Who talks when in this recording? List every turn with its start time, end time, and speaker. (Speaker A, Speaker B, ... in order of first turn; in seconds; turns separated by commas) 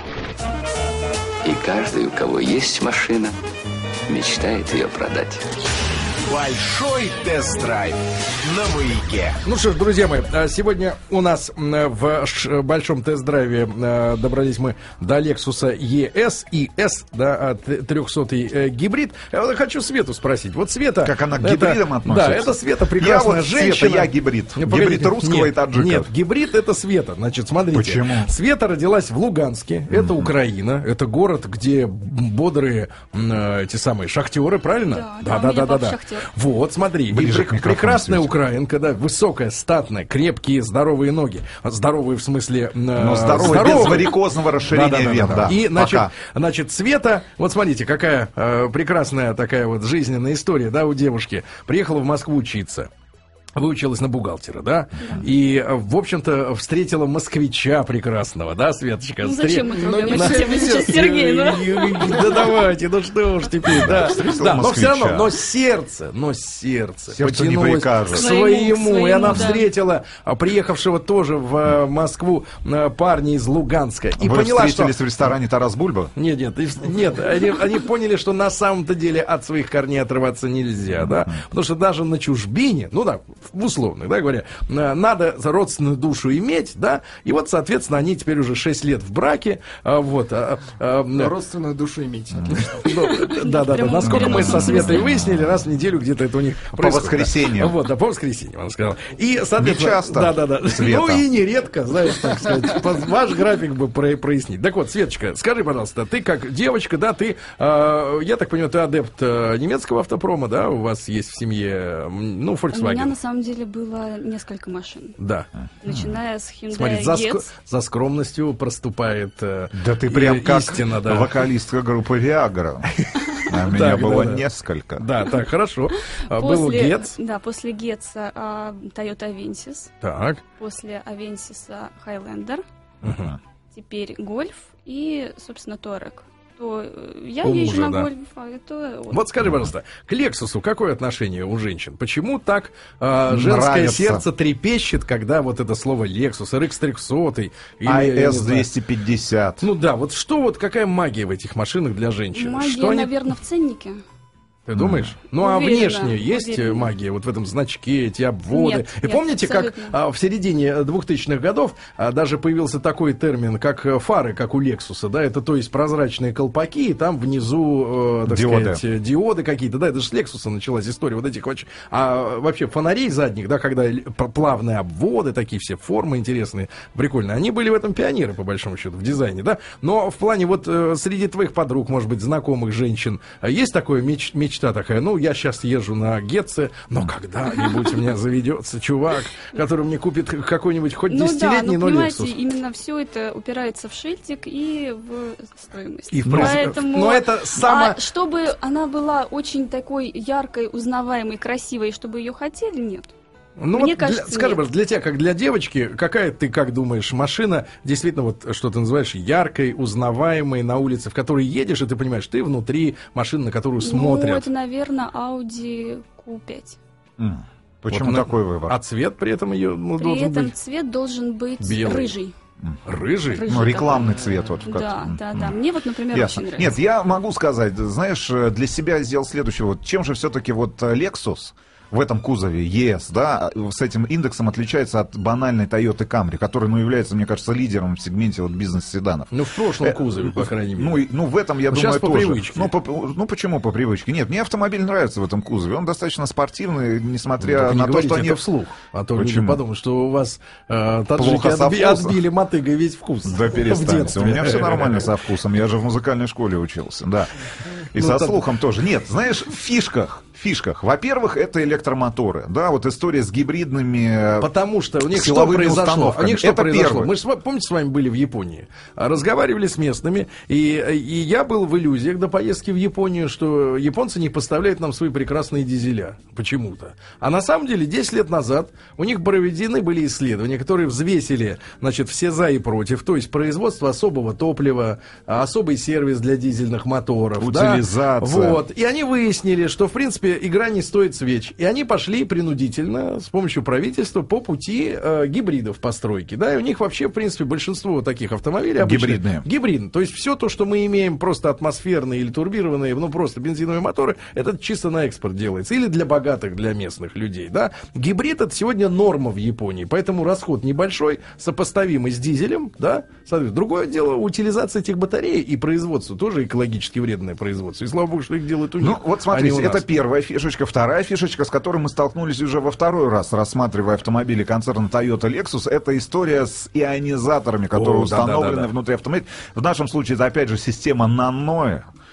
Speaker A: 1.4-3.4, Speaker A: 4.1-5.4, Speaker B: 6.3-9.4, Speaker C: 9.4-44.2, Speaker D: 21.0-26.1, Speaker D: 27.7-28.3, Speaker D: 29.9-30.3, Speaker E: 34.9-36.3, Speaker D: 37.1-38.3, Speaker D: 43.0-46.1, Speaker C: 44.7-52.9, Speaker C: 53.6-75.0, Speaker E: 55.0-55.3, Speaker E: 59.2-62.3, Speaker F: 59.7-61.6, Speaker D: 63.6-65.3, Speaker D: 67.1-68.3, Speaker E: 68.1-69.7, Speaker D: 74.2-76.1, Speaker C: 76.2-91.3, Speaker D: 80.9-81.4, Speaker F: 91.1-92.8, Speaker C: 92.5-113.1, Speaker E: 93.1-95.1, Speaker D: 94.0-95.7, Speaker D: 96.8-97.8, Speaker D: 99.6-101.3, Speaker E: 112.7-115.2, Speaker C: 115.2-115.5, Speaker E: 115.8-117.5, Speaker D: 115.8-116.2, Speaker C: 116.7-121.3, Speaker D: 119.7-122.9, Speaker C: 123.0-124.5, Speaker D: 123.4-125.0, Speaker C: 125.0-127.2, Speaker E: 126.3-129.9, Speaker C: 130.0-130.4, Speaker E: 130.6-132.6, Speaker D: 133.0-133.4, Speaker C: 133.0-133.3, Speaker E: 133.7-139.2, Speaker C: 137.4-138.1, Speaker C: 139.1-148.7, Speaker D: 143.3-144.2, Speaker D: 147.8-149.7, Speaker C: 149.6-153.1, Speaker E: 152.3-154.0, Speaker C: 154.7-192.3, Speaker D: 154.8-155.2, Speaker E: 155.4-156.9, Speaker E: 158.5-159.9, Speaker D: 168.3-168.8, Speaker E: 187.6-187.9, Speaker E: 191.1-203.1, Speaker C: 196.1-198.0, Speaker D: 196.2-196.7, Speaker C: 203.6-214.5, Speaker E: 203.7-204.6, Speaker E: 213.8-216.8, Speaker D: 217.2-218.8, Speaker C: 217.9-220.5, Speaker E: 220.0-222.3, Speaker C: 221.6-222.1, Speaker C: 222.9-223.5, Speaker E: 223.3-226.8, Speaker D: 223.4-225.6, Speaker D: 226.1-248.4, Speaker C: 239.3-241.0, Speaker C: 241.7-242.7, Speaker C: 247.4-255.1, Speaker D: 249.1-249.6, Speaker D: 251.2-252.2, Speaker D: 253.2-264.5, Speaker C: 257.9-258.4, Speaker C: 264.4-319.9, Speaker D: 265.1-267.1, Speaker D: 287.4-288.6, Speaker D: 298.8-299.5, Speaker D: 318.8-331.9, Speaker C: 327.7-328.7